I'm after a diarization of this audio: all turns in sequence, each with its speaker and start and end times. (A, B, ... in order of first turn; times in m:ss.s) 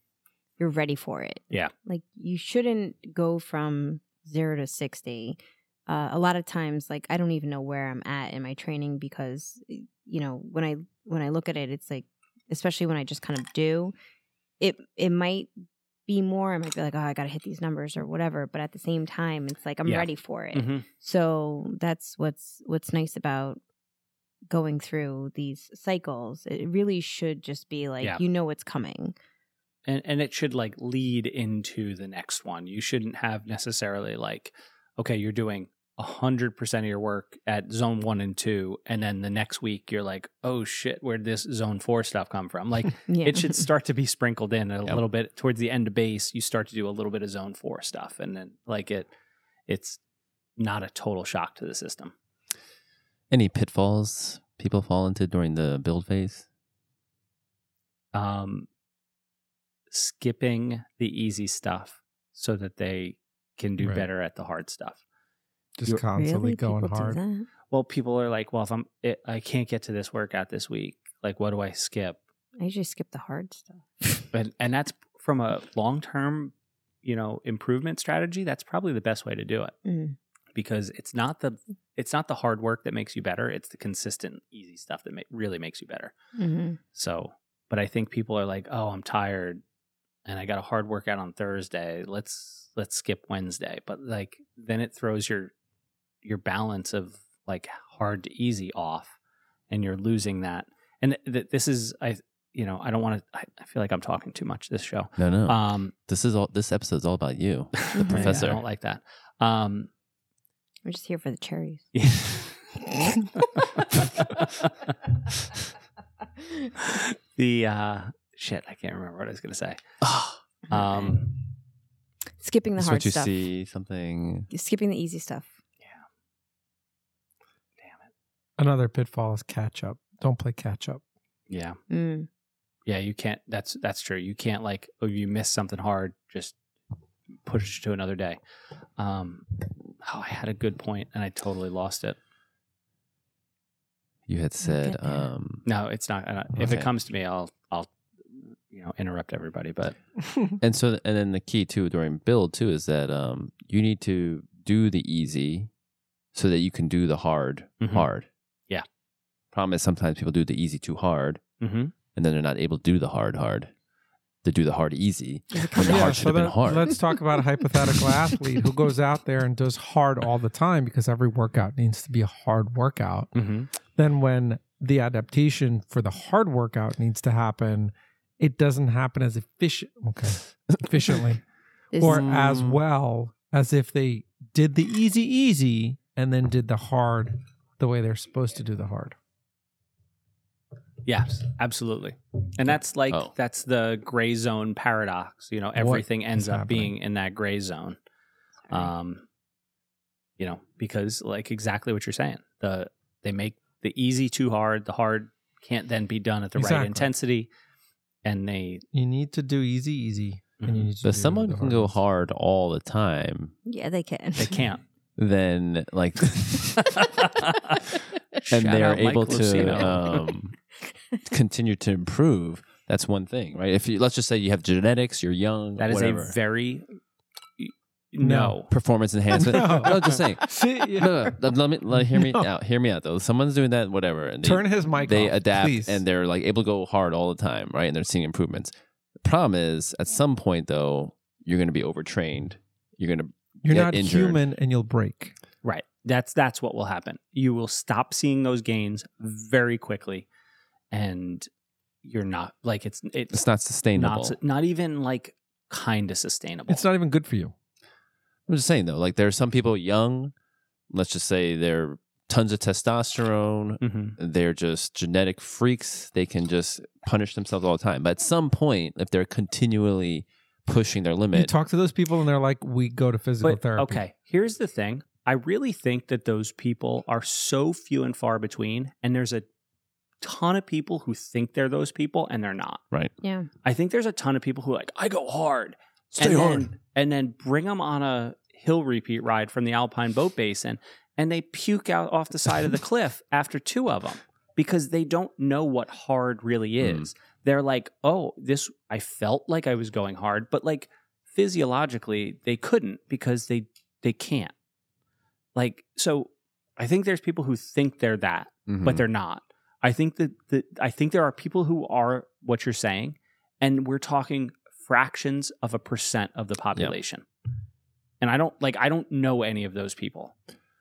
0:00.6-0:13.9 A
0:14.6-0:15.5 A
0:16.1-0:23.6 A
0:19.8-0:20.8 B
0:24.5-0:29.1 A
0:29.8-0:49.1 B
0:43.1-0:43.7 A
0:49.7-0:50.0 B
0:50.6-0:52.1 B
0:53.3-0:56.4 C
0:58.1-0:58.7 B
0:59.9-1:05.0 B
1:03.8-1:04.0 D
1:05.8-1:07.2 D
1:06.1-1:07.5 A
1:07.7-1:12.2 B
1:12.6-1:14.3 A
1:14.3-1:19.7 B
1:19.8-1:20.2 A
1:20.5-1:26.1 B
1:26.4-1:26.8 A
1:26.9-1:29.6 B
1:30.2-1:35.5 B
1:36.2-1:39.2 B
1:39.7-1:45.9 B
1:45.2-1:48.6 C
1:47.9-1:49.9 B
1:47.9-1:48.5 A
1:50.8-1:51.9 A
1:51.9-1:52.6 B
1:53.6-1:54.9 B
1:56.4-1:56.8 A
1:56.8-1:59.8 B
2:00.0-2:00.4 C
2:00.7-2:01.2 A
2:00.7-2:01.3 B
2:02.4-2:03.4 A
2:02.8-2:04.5 C
2:04.5-2:05.5 A
2:07.8-2:08.1 B
2:08.6-2:11.0 D
2:11.5-2:11.8 B
2:11.9-2:12.3 A
2:12.9-2:16.6 B
2:17.4-2:18.4 B
2:19.0-2:19.5 B
2:20.0-2:22.2 B
2:24.3-2:25.6 C
2:24.6-2:25.3 A
2:25.6-2:27.9 B
2:26.6-2:26.9 C
2:28.4-2:30.0 B
2:30.6-2:35.7 C
2:36.3-2:38.3 C
2:37.8-2:38.1 B
2:39.5-2:41.4 C
2:41.6-2:41.9 B
2:42.1-2:43.7 C
2:44.4-2:47.0 C
2:45.5-2:46.3 A
2:45.8-2:53.3 D
2:53.3-2:53.7 B
2:53.9-3:01.4 D
3:01.9-3:02.5 A
3:01.9-3:09.2 D
3:02.0-3:02.8 C
3:11.0-3:18.0 B
3:15.8-3:16.9 D
3:18.7-3:19.2 B
3:20.4-3:27.5 B
3:26.6-3:27.1 D
3:28.2-3:28.8 B
3:28.9-3:31.9 D
3:30.6-3:30.9 B
3:31.0-3:33.5 C
3:33.6-3:34.6 A
3:34.4-3:34.8 B
3:35.2-3:36.9 C
3:36.8-3:37.8 B
3:38.4-3:40.2 B
3:38.5-3:40.6 C
3:41.2-3:46.4 C
3:45.8-3:47.0 B
3:47.6-3:48.7 B
3:48.2-3:48.6 D
3:48.7-4:04.4 C
3:49.3-3:51.4 D
3:51.9-3:52.5 D
3:54.4-3:56.0 D
4:03.6-4:05.3 D
4:05.6-4:10.3 B
4:10.9-4:11.5 B
4:12.0-4:13.4 B
4:13.3-4:14.4 C
4:13.9-4:16.8 B
4:16.7-4:17.5 D
4:18.5-4:20.3 C
4:20.9-4:31.5 C
4:23.8-4:24.2 B
4:31.3-4:34.0 D
4:33.4-4:39.5 B
4:40.2-4:42.8 B
4:43.2-4:43.5 A
4:43.6-5:04.5 B
4:46.2-4:46.7 C
4:56.8-4:57.1 C
5:05.5-5:17.2 B
5:08.7-5:09.0 C
5:18.2-5:20.3 B